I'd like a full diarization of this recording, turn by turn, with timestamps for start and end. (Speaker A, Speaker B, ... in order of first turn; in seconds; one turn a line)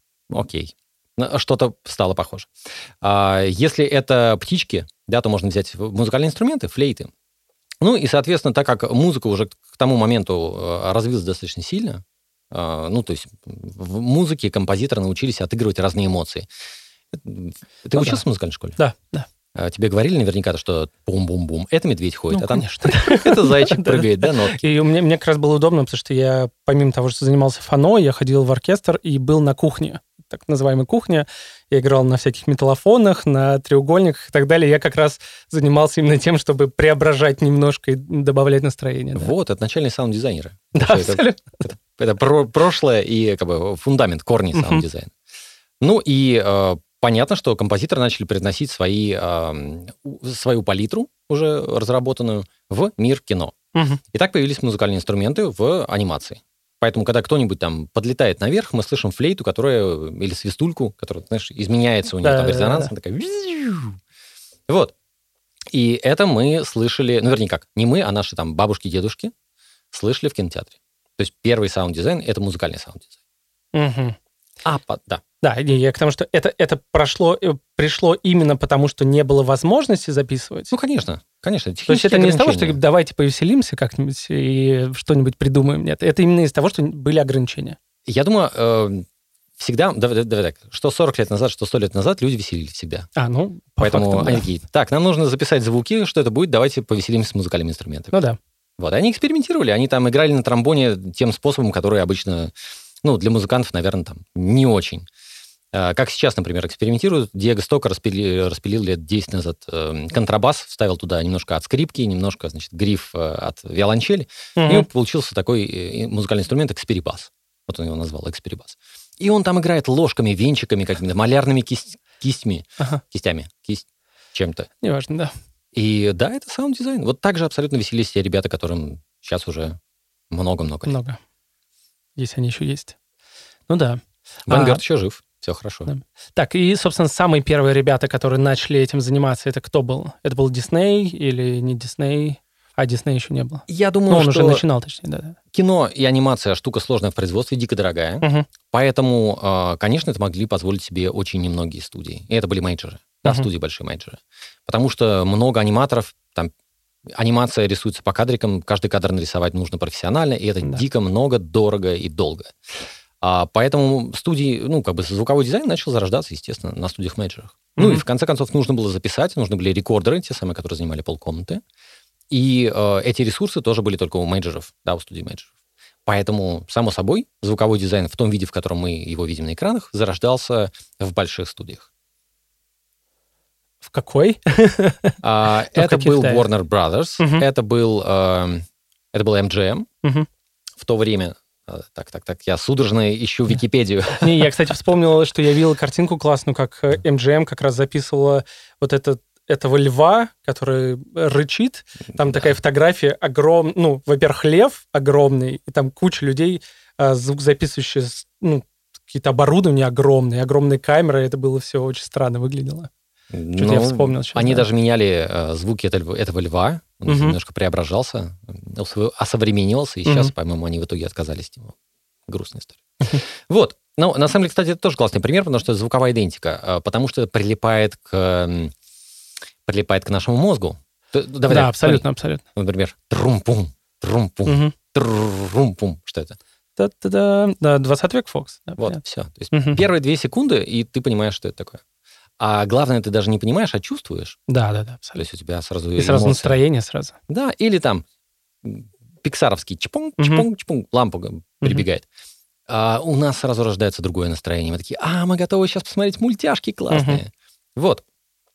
Speaker A: 0.3-7.1
Speaker A: 7.8-16.5
Speaker A: 17.1-18.8
Speaker B: 18.8-19.3
Speaker A: 19.5-24.6
Speaker B: 22.3-39.3
Speaker A: 39.2-45.1
Speaker B: 40.8-41.6
Speaker B: 44.5-44.9
Speaker A: 45.8-53.6
Speaker B: 53.7-54.0
Speaker A: 54.1-64.0
Speaker B: 62.2-62.9
Speaker A: 64.7-64.9
Speaker A: 65.7-69.3
Speaker A: 69.9-73.1
Speaker B: 73.7-74.2
Speaker A: 74.7-75.2
Speaker B: 75.4-80.7
Speaker A: 80.7-82.8
Speaker B: 81.9-87.8
Speaker A: 88.1-89.1
Speaker A: 89.6-93.1
Speaker B: 93.2-94.5
Speaker A: 93.8-98.2
Speaker B: 98.1-98.4
Speaker A: 98.8-102.5
Speaker A: 103.0-105.1
Speaker A: 105.7-124.7
Speaker B: 114.6-114.9
Speaker B: 124.8-125.3
Speaker A: 125.7-129.8
Speaker A: 130.3-131.0
Speaker B: 130.9-131.2
Speaker B: 132.2-133.0
Speaker B: 133.7-134.8
Speaker A: 134.5-135.9
Speaker B: 135.9-145.4
Speaker A: 143.7-144.6
Speaker A: 145.5-156.5
Speaker B: 148.2-148.5
Speaker A: 157.2-162.5
Speaker A: 163.2-171.6
Speaker B: 167.8-168.0
Speaker A: 172.3-175.5
Speaker A: 176.1-181.9
Speaker B: 183.8-185.2
Speaker A: 185.2-189.9
Speaker B: 185.7-186.5
Speaker B: 187.2-187.5
Speaker A: 190.8-194.5
Speaker B: 194.2-212.9
Speaker A: 202.1-202.5
Speaker A: 213.3-221.8
Speaker B: 213.6-214.7
Speaker B: 217.1-217.4
Speaker B: 220.1-220.3
Speaker A: 222.3-228.7
Speaker A: 229.7-236.4
Speaker B: 231.5-232.4
Speaker B: 234.5-234.7
Speaker B: 236.8-239.0
Speaker A: 238.8-241.8
Speaker B: 239.5-239.8
Speaker A: 242.4-244.4
Speaker B: 244.5-245.2
Speaker A: 245.2-246.6
Speaker B: 246.0-247.2
Speaker A: 247.3-248.0
Speaker A: 248.6-252.1
Speaker B: 250.2-250.5
Speaker A: 252.7-258.0
Speaker B: 256.9-257.2